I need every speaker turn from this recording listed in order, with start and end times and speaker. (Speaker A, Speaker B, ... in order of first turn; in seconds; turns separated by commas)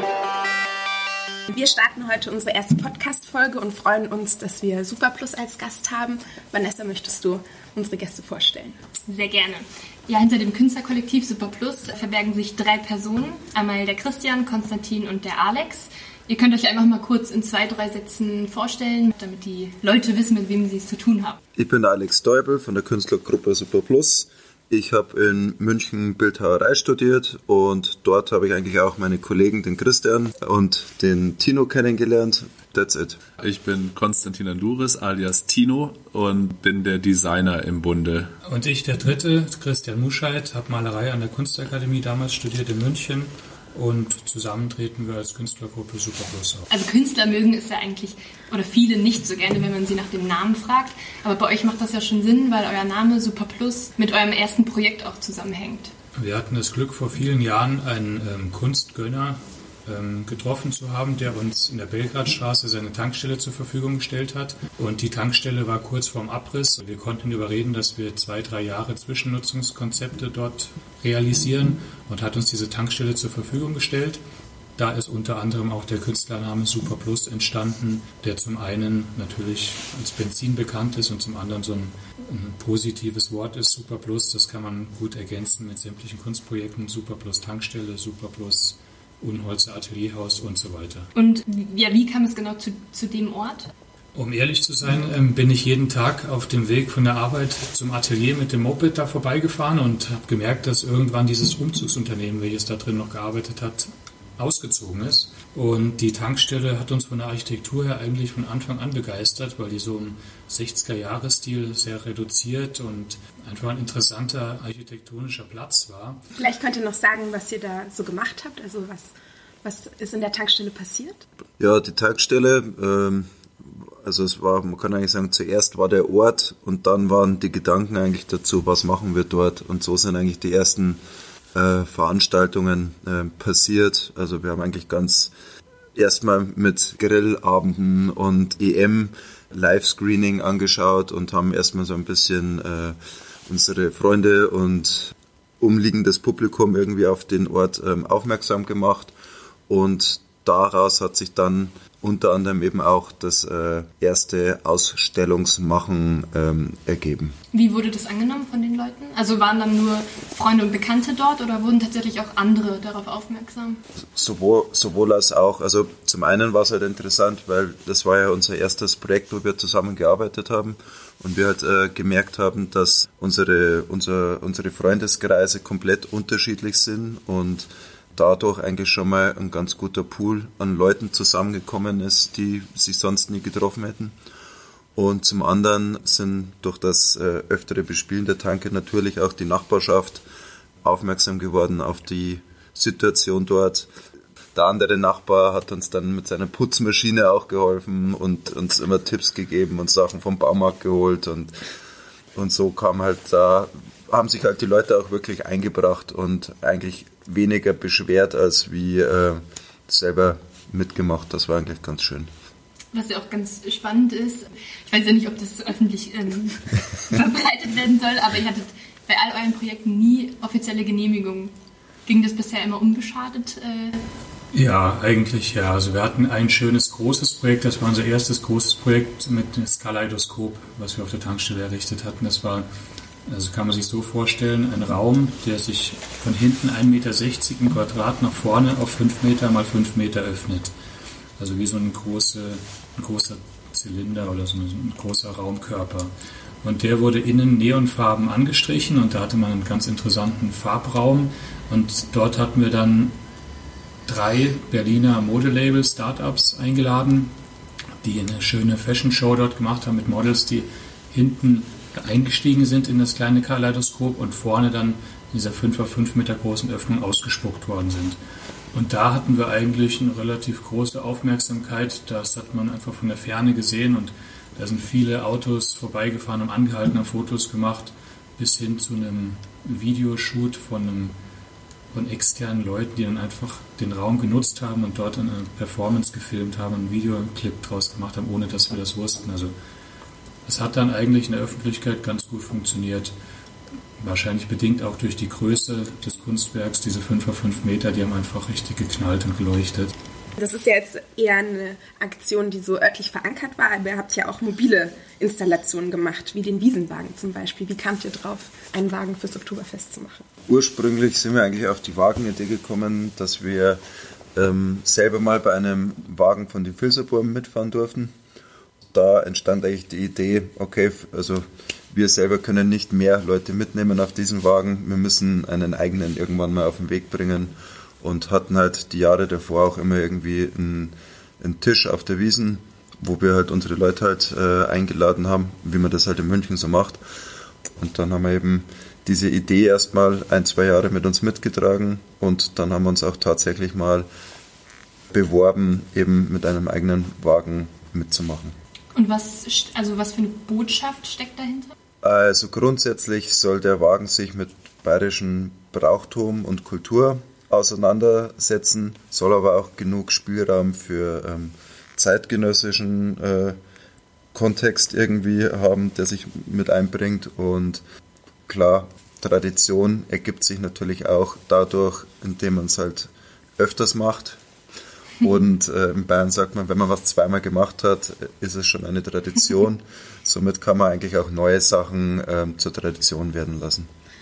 Speaker A: 1.5-8.8, Speaker B: 9.1-21.4, Speaker C: 21.6-33.2, Speaker D: 33.4-38.3, Speaker E: 38.4-46.7, Speaker B: 46.7-55.9, Speaker E: 56.1-74.2, Speaker E: 74.8-91.1, Speaker B: 91.2-93.7, Speaker E: 94.1-116.2, Speaker A: 116.4-121.2, Speaker C: 121.6-123.3, Speaker C: 124.0-131.0, Speaker C: 131.6-135.3, Speaker C: 136.0-149.1, Speaker C: 149.7-157.3, Speaker B: 157.5-163.8, Speaker C: 164.1-184.2, Speaker C: 185.0-190.2, Speaker C: 190.8-193.9, Speaker C: 194.6-201.5, Speaker C: 202.3-212.3, Speaker B: 212.9-221.5, Speaker B: 222.1-224.0, Speaker E: 224.5-232.7, Speaker E: 233.3-240.7, Speaker E: 241.4-253.2, Speaker E: 254.1-257.3, Speaker E: 258.0-268.2, Speaker E: 268.7-281.2, Speaker E: 281.9-289.6, Speaker E: 290.4-293.1, Speaker E: 294.0-299.9, Speaker A: 300.4-310.2, Speaker C: 310.5-313.8, Speaker C: 314.4-318.1, Speaker C: 318.9-337.0, Speaker C: 337.8-344.1, Speaker C: 345.1-348.6, Speaker B: 348.9-351.7, Speaker C: 352.0-363.6, Speaker C: 364.3-367.8, Speaker C: 368.5-374.4, Speaker C: 375.2-383.9